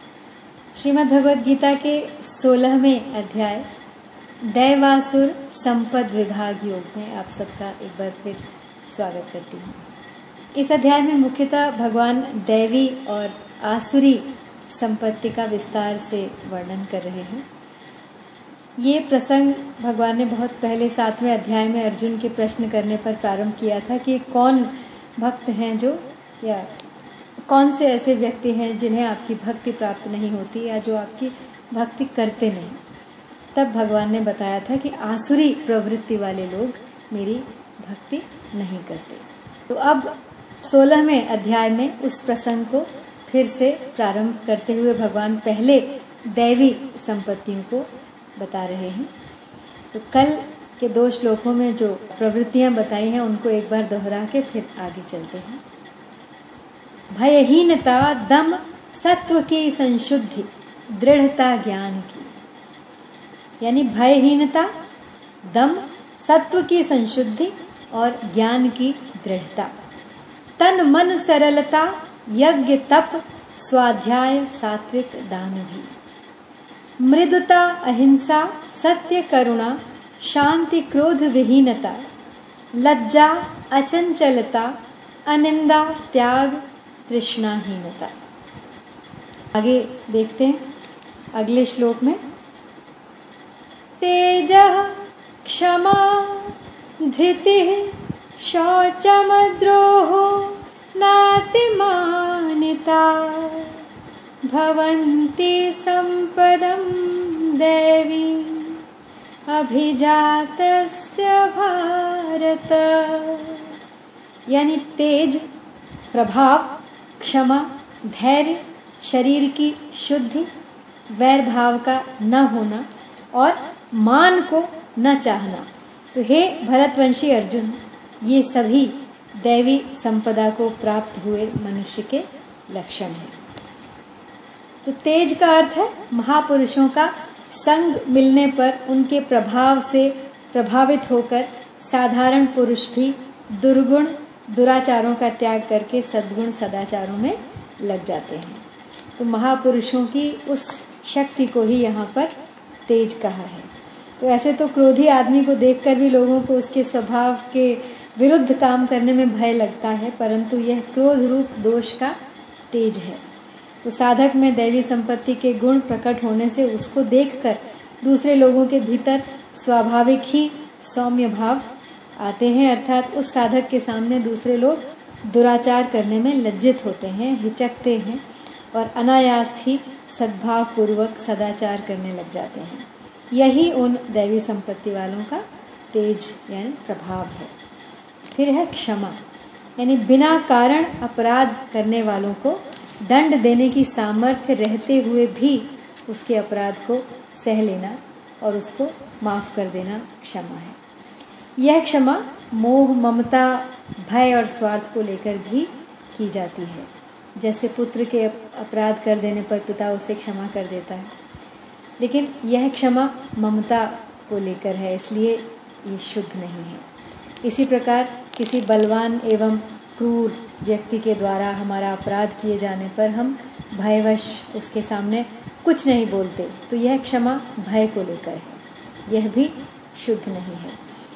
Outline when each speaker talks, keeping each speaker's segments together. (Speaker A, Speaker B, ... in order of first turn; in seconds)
Speaker A: 0.8-3.6, 4.4-9.9, 10.5-17.4, 18.8-26.7, 27.5-32.8, 33.5-49.1, 49.9-55.6, 57.1-62.3, 63.6-64.7, 65.5-69.7, 70.6-75.9, 77.0-82.0, 82.7-88.1, 89.5-90.6, 91.3-92.2, 94.0-103.8, 104.4-108.8, 109.5-113.7, 114.5-115.4, 116.1-120.5, 121.1-133.4, 134.8-148.6, 149.2-152.3, 152.9-162.2, 162.7-163.2, 163.8-187.5, 188.3-189.2, 189.8-200.8, 201.6-211.1, 212.0-216.8, 217.4-230.8